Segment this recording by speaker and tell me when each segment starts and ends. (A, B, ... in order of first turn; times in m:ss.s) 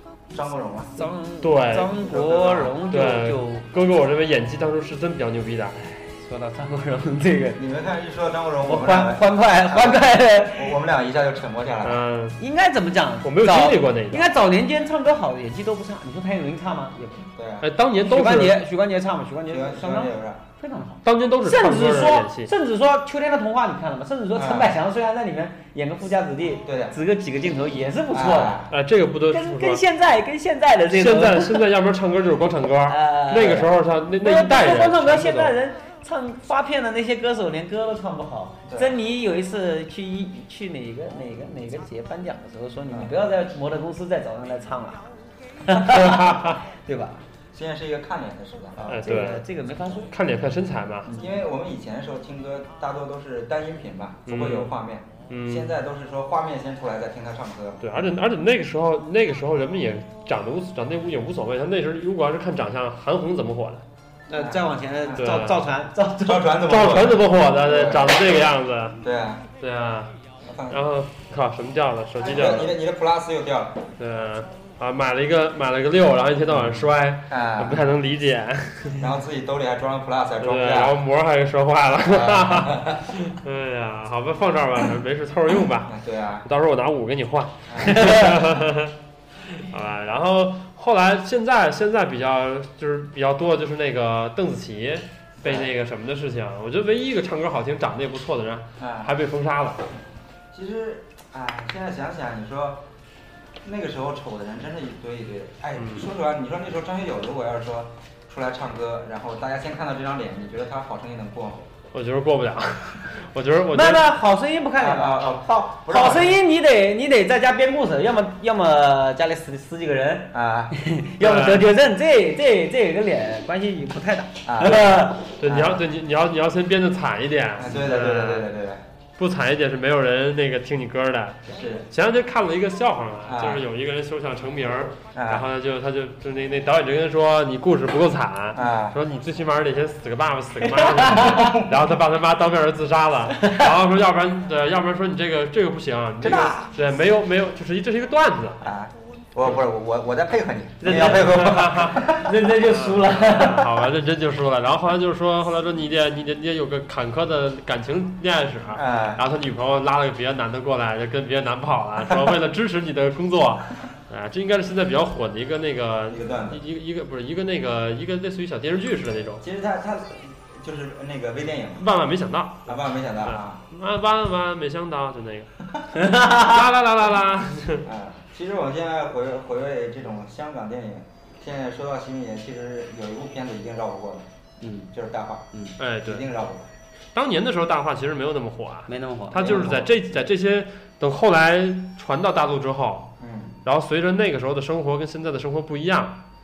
0:00.3-0:01.1 A
0:01.0-0:03.7 B
0:01.4-0:02.0 C
0:02.0-0:02.8 A
0:02.9-0:05.8 C
0:05.8-0:07.6 B
0:07.6-0:12.0 A
0:08.6-0:10.8 B
0:11.8-0:12.4 C
0:12.4-0:17.3 B
0:13.2-0:14.3 C
0:17.3-0:17.7 A
0:17.6-0:18.6 C
0:18.1-0:28.6 B
0:19.5-0:20.4 A
0:21.0-0:22.5 C
0:24.3-0:24.8 A
0:26.6-0:27.0 A
0:28.1-0:28.8 A
0:28.7-0:29.8 C
0:29.3-0:31.7 B
0:30.9-0:35.5 C
0:32.9-0:45.1 B
0:38.7-0:39.0 A
0:45.6-0:47.2 B
0:45.8-0:46.6 C
0:47.5-0:49.2 A
0:48.9-0:49.4 C
0:49.0-0:50.1 B
0:50.1-0:51.1 C
0:51.1-0:51.4 B
0:51.2-0:57.9 A
0:54.3-0:54.7 C
0:55.3-0:55.7 C
0:57.8-1:03.8 C
1:04.3-1:06.6 B
1:04.3-1:05.3 A
1:05.2-1:05.7 C
1:06.2-1:08.5 A
1:06.7-1:09.0 C
1:09.0-1:09.4 A
1:09.6-1:10.1 C
1:10.4-1:10.9 A
1:10.7-1:12.8 C
1:12.2-1:13.8 A
1:14.0-1:19.0 C
1:16.5-1:17.8 A
1:19.0-1:21.0 A
1:20.4-1:28.9 C
1:22.1-1:23.0 A
1:25.9-1:26.5 A
1:27.7-1:28.2 A
1:27.9-1:28.4 B
1:29.5-1:39.8 C
1:35.4-1:35.7 A
1:38.8-1:39.1 A
1:40.5-1:42.9 A
1:43.6-1:51.7 A
1:45.8-1:46.1 C
1:51.9-1:54.1 C
1:53.7-2:05.3 B
1:54.8-1:56.4 A
2:00.3-2:00.8 A
2:01.2-2:01.7 C
2:04.4-2:05.8 A
2:05.4-2:08.5 C
2:07.6-2:08.8 A
2:09.2-2:28.6 C
2:11.5-2:11.9 A
2:13.3-2:13.6 A
2:15.2-2:15.5 A
2:18.5-2:19.0 A
2:20.7-2:21.6 B
2:21.3-2:21.7 A
2:23.4-2:23.6 B
2:26.2-2:26.7 A
2:28.6-2:32.4 A
2:30.8-2:33.7 B
2:30.9-2:49.4 C
2:38.7-2:39.2 A
2:46.1-2:46.6 A
2:49.4-2:51.9 A
2:51.8-2:55.5 C
2:52.7-2:53.6 A
2:56.0-2:56.6 B
2:56.1-2:57.9 C
2:57.8-3:04.3 A
3:04.6-3:04.9 B
3:04.9-3:05.5 A
3:05.8-3:06.2 C
3:06.0-3:06.7 A
3:07.1-3:13.1 C
3:08.9-3:09.7 B
3:09.4-3:10.0 A
3:13.2-3:13.6 A
3:13.6-3:16.2 C